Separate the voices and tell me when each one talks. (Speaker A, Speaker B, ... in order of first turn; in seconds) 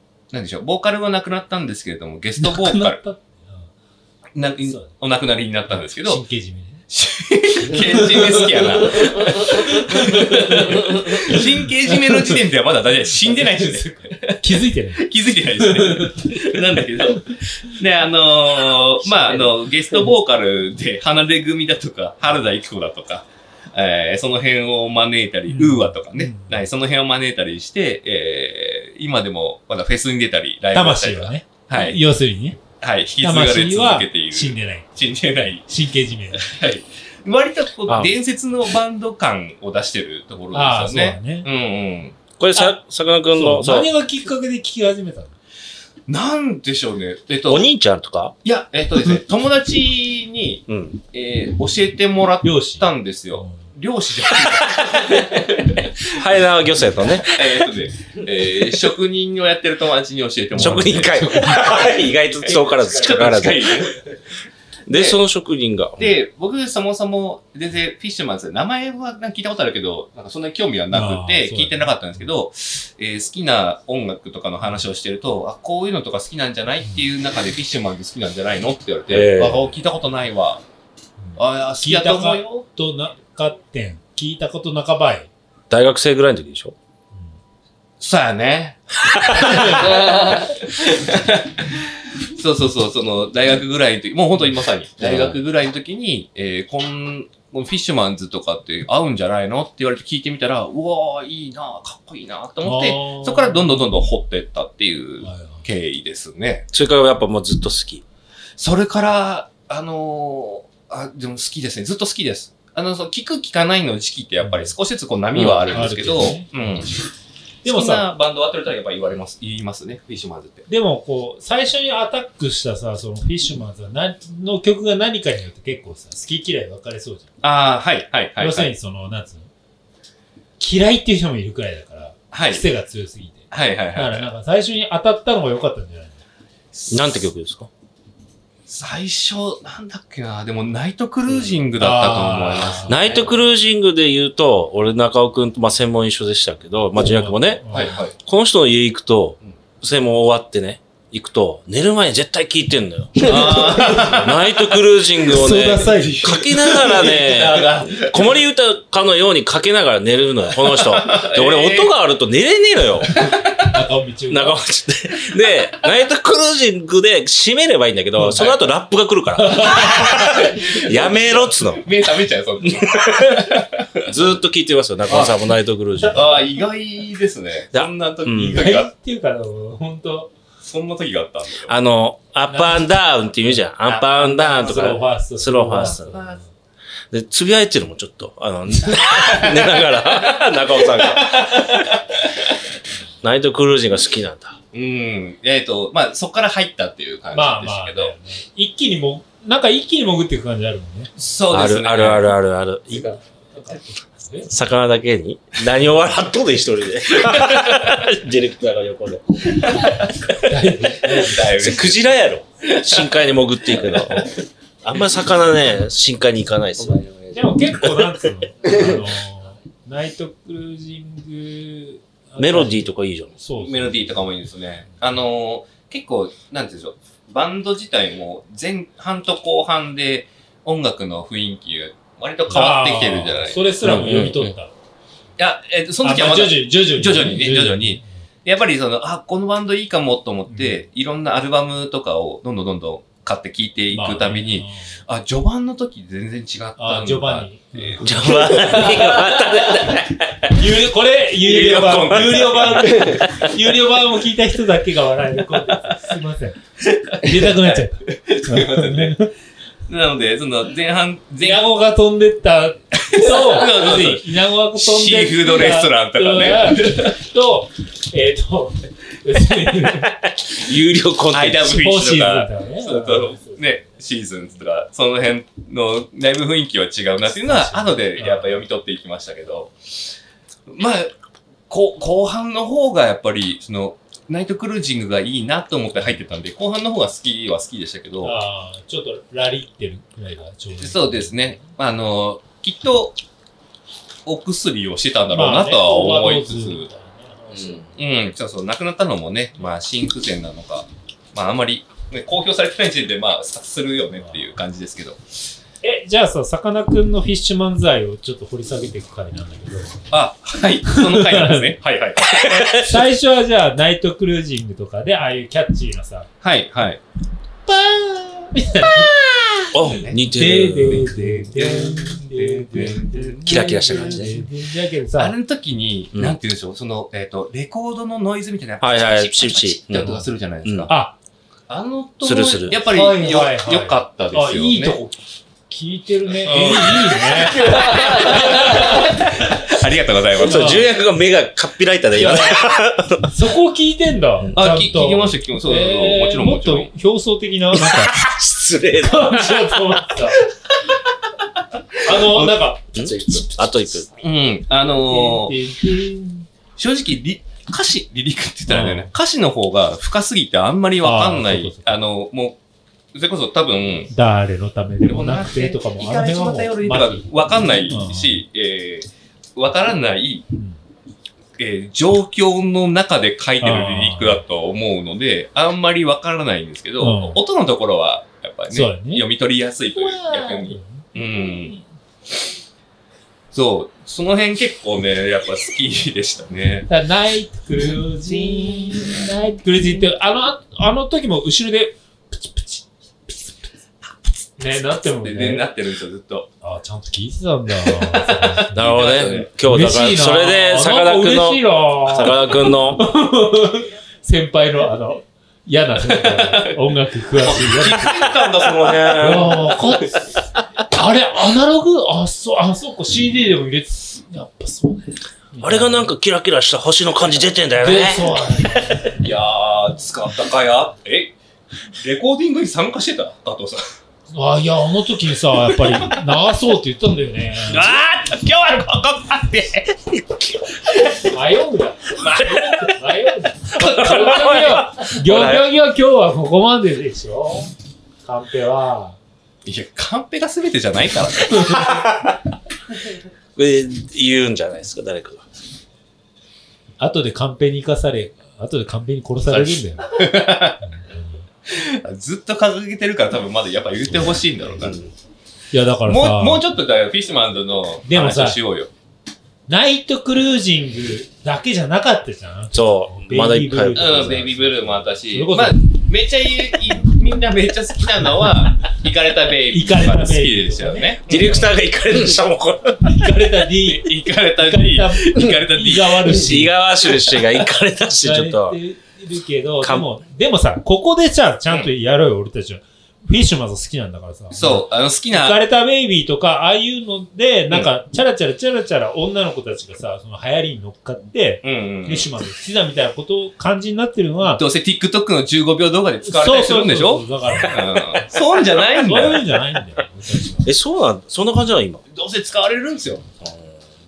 Speaker A: 0.3-3.0, 4.4-6.2, 6.9-14.4, 14.9-32.0, 32.8-35.7, 36.3-42.2, 46.1-47.7, 48.4-55.9, 57.0-64.0, 64.9-65.2, 66.0-80.6, 81.4-82.7, 88.0-91.7, 92.3-106.7, 108.6-117.0, 117.6-120.7, 127.4-128.7, 132.3-132.7, 133.5-134.3, 136.7-137.3, 138.7-143.4, 147.7-148.2, 153.2-154.6, 155.3-158.4, 160.6-161.9, 163.2-163.8, 169.6-173.8, 175.1-175.4, 176.0-178.9, 180.6-181.8, 184.6-184.9, 185.7-186.4, 189.2-192.2, 194.7-198.1, 201.2-202.3, 211.0-212.2, 212.8-214.2, 223.6-234.2, 235.4-250.0, 251.3-253.4, 256.9-259.2, 259.9-261.7, 263.1-267.2, 271.3-279.7, 280.7-281.1, 281.7-288.4, 290.8-293.2, 294.3-296.9, 298.0-305.2, 310.1-312.8, 316.4-317.0, 319.8-320.2, 320.9-324.5, 325.1-330.9, 331.7-335.0, 336.3-340.9, 342.2-342.7, 344.6-346.9, 352.1-352.6, 354.2-355.6, 356.8-362.6, 363.1-364.1, 365.0-370.5, 371.6-381.8, 383.5-386.9, 388.3-389.2, 394.7-396.5, 397.9-399.6, 406.0-406.8, 407.3-409.6, 419.2-421.4, 422.0-423.8, 425.8-426.1, 427.7-429.9, 439.6-442.2, 449.4-450.8, 451.7-455.0, 456.1-458.9, 463.9-471.7, 473.8-476.6, 484.5-485.6, 491.6-492.3, 494.4-499.5, 502.1-503.3
Speaker B: 2.4-3.7, 4.6-4.9, 5.7-6.8, 7.7-8.5, 9.3-11.3, 13.2-16.2, 25.5-26.6, 30.7-32.6, 33.2-34.9, 35.6-36.5, 40.5-41.5, 42.5-42.8, 43.3-45.4, 52.4-53.6, 60.5-63.8, 70.9-71.9, 81.2-85.3, 89.6-90.0, 102.6-103.9, 105.2-105.7, 114.4-114.7, 115.7-116.9, 117.7-118.1, 120.7-127.3, 128.4-129.5, 130.6-136.2, 141.8-143.0, 147.0-148.0, 153.2-154.3, 155.3-156.7, 163.6-164.6, 168.2-168.5, 169.4-170.2, 178.5-180.3, 182.5-186.5, 197.3-201.1, 203.5-204.5, 210.4-211.4, 217.3-224.3, 232.5-234.7, 236.0-238.1, 240.5-240.8, 243.9-245.0, 246.8-248.8, 250.5-256.6, 257.2-259.3, 261.4-270.1, 271.6-273.8, 277.3-278.6, 288.2-291.7, 295.3-297.9, 304.1-304.5, 305.8-310.0, 310.9-311.7, 312.8-316.3, 317.7-325.4, 330.0-330.3, 330.9-331.2, 332.8-339.2, 340.4-340.9, 342.2-342.6, 343.2-348.1, 349.0-350.4, 352.1-354.1, 354.8-356.5, 358.7-359.1, 361.0-362.1, 364.1-368.4, 370.5-370.8, 373.6-374.4, 377.0-377.4, 378.7-379.3, 379.9-381.8, 386.9-393.6, 394.6-395.7, 396.6-398.9, 399.6-408.4, 409.2-416.1, 417.8-419.1, 424.3-427.9, 431.3-439.2, 447.0-451.4, 454.1-454.5, 455.7-456.6, 458.1-458.6, 459.7-465.8, 469.7-471.7, 473.0-476.8, 478.1-494.6, 496.2-497.8, 498.9-500.7
Speaker C: 37.9-38.1, 42.4-43.9, 47.5-48.4, 50.7-51.0, 54.5-55.4, 56.1-57.7, 60.5-63.9, 64.9-66.1, 79.1-79.7, 85.7-86.8, 89.1-89.5, 106.7-108.0, 115.3-115.7, 136.9-137.7, 142.9-147.6, 148.2-163.1, 164.3-171.9, 172.7-173.4, 174.1-176.2, 177.7-178.6, 181.7-186.2, 187.1-191.9, 193.2-194.6, 201.5-203.2, 204.5-210.1, 211.4-214.3, 214.8-217.4, 222.4-223.3, 233.8-234.5, 248.0-250.5, 270.5-271.7, 297.5-297.8, 312.3-312.9, 319.7-321.1, 323.4-324.4, 328.8-330.9, 332.2-332.8, 337.6-339.4, 340.4-343.3, 347.7-350.3, 352.9-354.1, 398.7-403.0, 408.6-409.8, 415.6-419.1, 427.9-428.1, 432.2-432.9, 433.7-435.7, 443.6-445.4, 454.8-455.1, 462.7-464.4, 471.3-473.2, 476.2-478.8, 479.8-480.1, 500.6-502.0